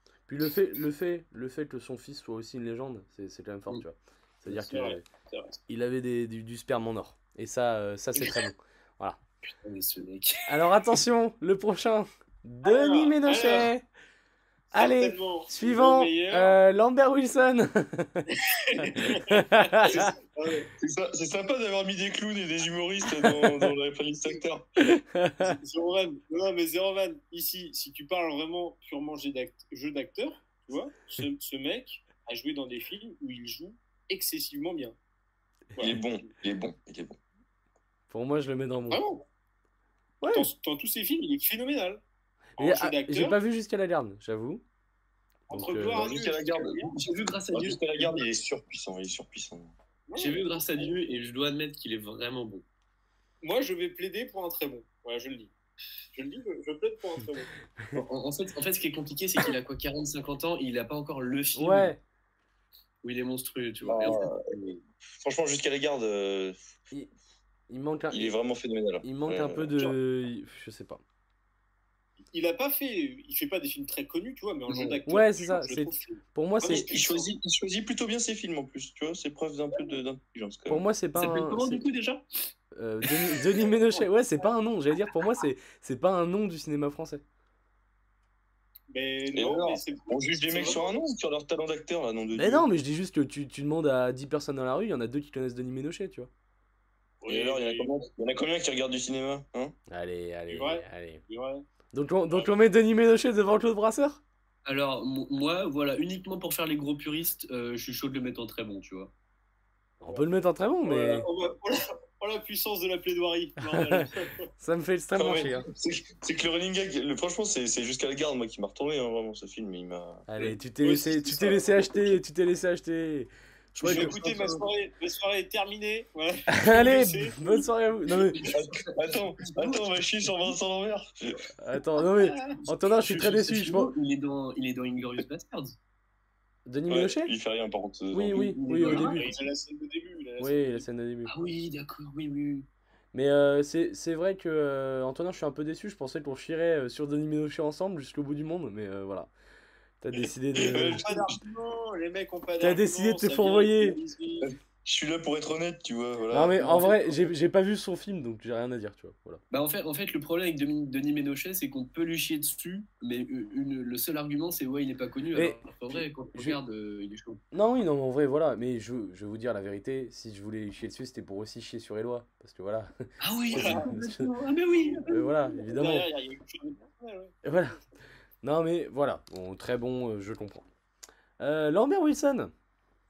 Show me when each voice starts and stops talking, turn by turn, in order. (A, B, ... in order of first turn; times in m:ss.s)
0:00.3-0:05.1 A
0:04.5-0:05.6 B
0:05.7-0:09.2 A
0:09.6-0:10.5 C
0:10.5-0:13.8 A
0:12.6-0:13.7 B
0:14.7-0:16.6 B
0:14.7-0:18.3 A
0:18.5-0:20.7 B
0:18.8-0:20.1 A
0:20.8-0:24.6 D
0:23.2-0:23.5 A
0:24.8-0:25.6 A
0:25.4-0:35.0 B
0:35.8-0:36.0 B
0:35.8-0:37.2 D
0:38.1-0:39.0 A
0:38.9-0:39.2 B
0:40.2-0:40.5 A
0:40.3-0:42.0 B
0:42.6-0:43.4 B
0:42.6-0:44.6 A
0:45.5-0:46.9 B
0:45.5-0:46.1 A
0:45.9-0:49.7 D
0:47.0-0:48.3 C
0:50.1-0:50.9 B
0:50.2-0:52.6 C
0:53.4-0:55.5 B
0:56.1-0:57.5 B
0:57.9-1:01.9 C
1:01.6-1:02.0 A
1:03.0-1:04.7 C
1:03.8-1:04.6 D
1:05.2-1:06.6 D
1:07.7-1:08.4 A
1:08.1-1:10.0 D
1:09.0-1:11.0 A
1:12.3-1:17.3 B
1:14.7-1:15.0 C
1:15.1-1:16.9 A
1:16.6-1:20.8 D
1:20.7-1:21.8 A
1:21.2-1:22.2 C
1:22.8-1:27.2 A
1:23.1-1:23.4 C
1:28.9-1:30.9 B
1:29.3-1:32.7 D
1:32.3-1:36.3 A
1:37.2-1:37.9 B
1:37.3-1:39.7 D
1:39.9-1:41.2 A
1:40.5-1:41.7 B
1:41.9-1:44.2 A
1:44.6-1:49.1 C
1:50.0-1:51.3 A
1:50.8-1:54.5 B
1:53.6-1:54.1 A
1:54.6-1:55.7 A
1:55.2-2:00.2 D
2:00.3-2:04.1 A
2:00.4-2:02.2 B
2:03.8-2:04.6 C
2:03.8-2:07.6 B
2:06.5-2:08.4 A
2:08.3-2:10.5 C
2:08.4-2:11.5 D
2:11.6-2:13.9 A
2:12.9-2:15.8 C
2:16.7-2:17.3 A
2:16.9-2:18.5 D
2:18.1-2:19.3 A
2:18.3-2:19.3 C
2:18.8-2:20.8 B
2:20.4-2:21.3 A
2:21.3-2:22.7 C
2:23.1-2:29.3 A
2:30.0-2:31.0 A
2:30.6-2:31.4 D
2:30.8-2:34.5 B
2:32.6-2:34.0 A
2:34.4-2:37.0 D
2:36.3-2:39.4 A
2:39.5-2:47.4 C
2:45.4-2:46.6 A
2:47.5-2:54.3 A
2:53.2-2:55.7 C
2:53.5-2:53.9 B
2:55.1-2:56.1 A
2:55.7-2:57.4 B
2:57.4-2:57.8 A
2:58.4-3:00.7 A
3:01.4-3:02.5 A